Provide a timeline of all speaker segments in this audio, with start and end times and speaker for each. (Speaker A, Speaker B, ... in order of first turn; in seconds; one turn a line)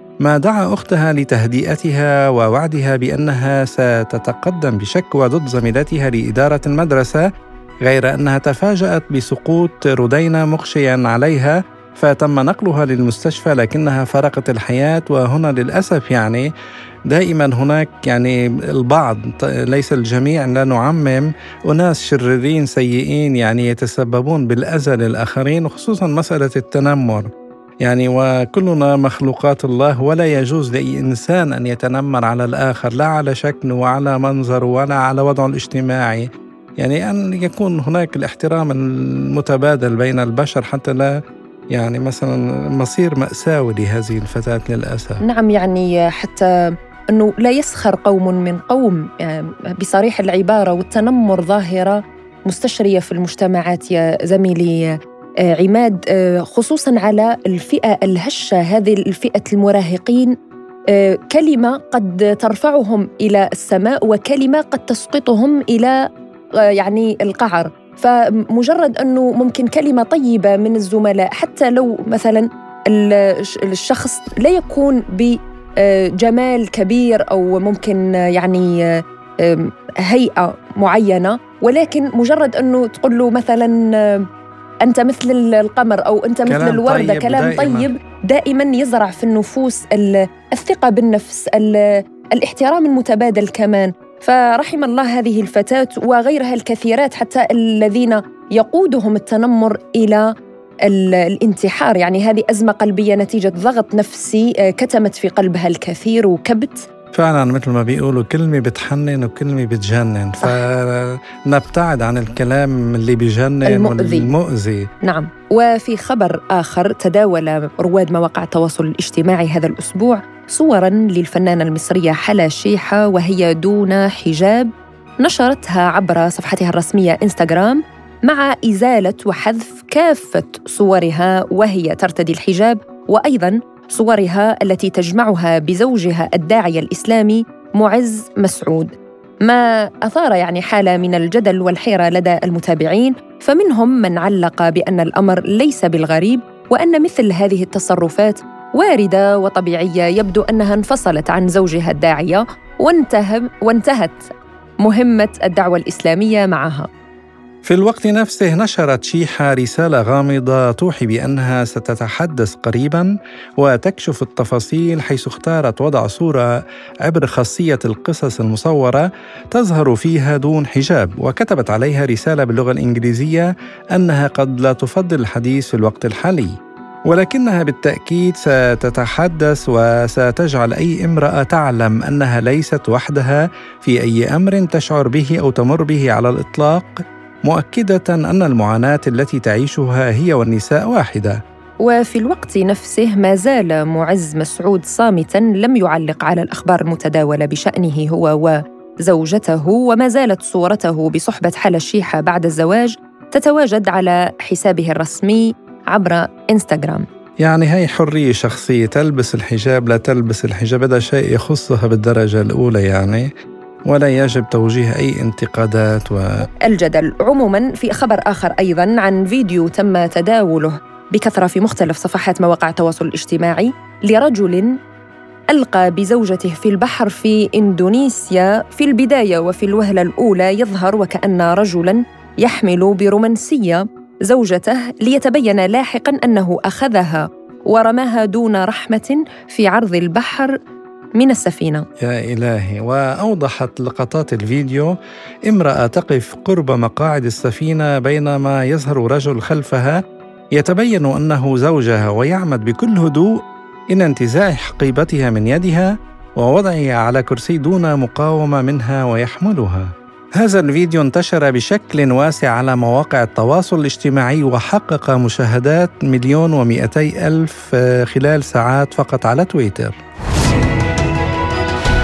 Speaker A: 0.2-7.2
Speaker A: 7.8-16.5
Speaker A: 17.1-27.3
Speaker A: 27.8-41.1
Speaker A: 41.7-45.2
Speaker B: 45.2-55.0
Speaker B: 55.5-60.3
Speaker B: 60.9-66.0
Speaker B: 66.7-84.3
Speaker B: 84.8-100.3
Speaker A: 86.5-87.9
Speaker B: 100.8-106.9
Speaker A: 107.1-114.9
Speaker B: 113.7-114.3
Speaker B: 115.0-124.7
Speaker B: 125.2-154.3
Speaker B: 154.8-156.9
Speaker A: 157.6-166.5
Speaker A: 167.0-176.5
Speaker A: 177.1-191.4
Speaker B: 191.8-207.1
Speaker A: 207.4-213.3
Speaker A: 213.9-216.5
Speaker B: 216.6-224.8
Speaker B: 225.5-240.6
Speaker B: 241.1-241.8
Speaker A: 242.0-244.9
Speaker A: 245.5-250.0
Speaker A: 250.5-253.3
Speaker A: 253.9-269.9